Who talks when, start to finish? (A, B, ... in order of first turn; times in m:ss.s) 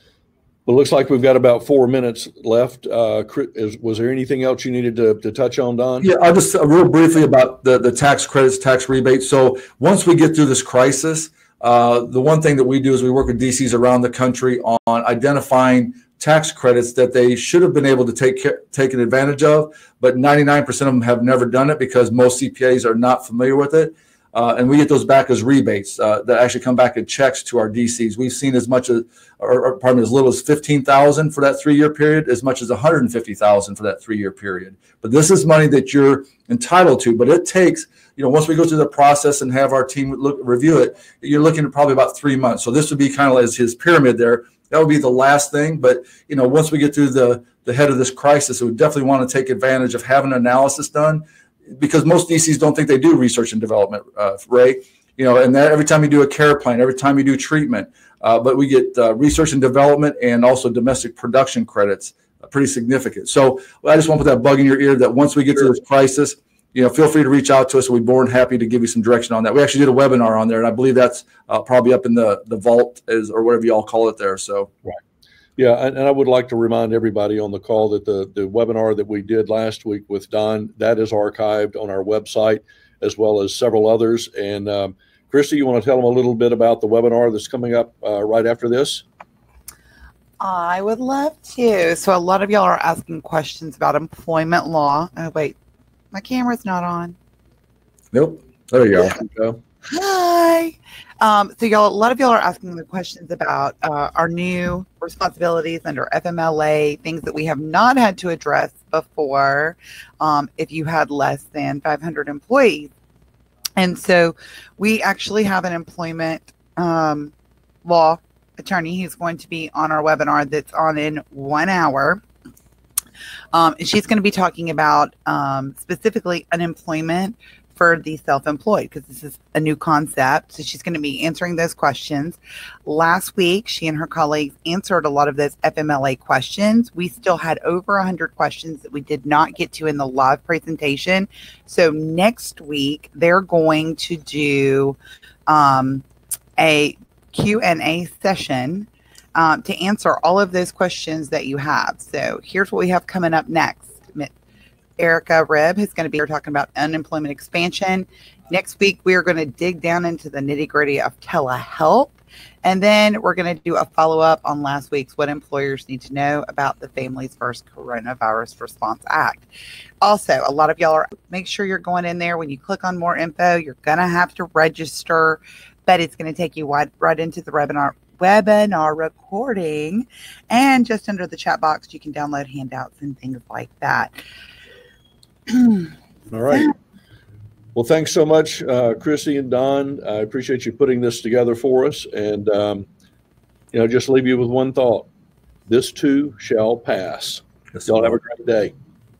0:00.7-0:06.1 A
0:06.0-1:14.7 B
1:15.6-1:29.0 A
1:30.4-1:35.6 C
1:36.1-1:37.2 C
1:38.1-1:39.6 B
1:39.9-1:52.9 C
1:53.8-1:57.3 C
1:57.8-2:02.2 C
2:03.5-2:26.0 C
2:26.6-2:34.3 C
2:35.0-2:49.5 C
2:50.0-3:04.2 C
3:06.3-3:06.7 A
3:07.8-3:12.9 A
3:13.7-3:15.1 A
3:15.7-3:18.7 A
3:17.8-3:18.2 B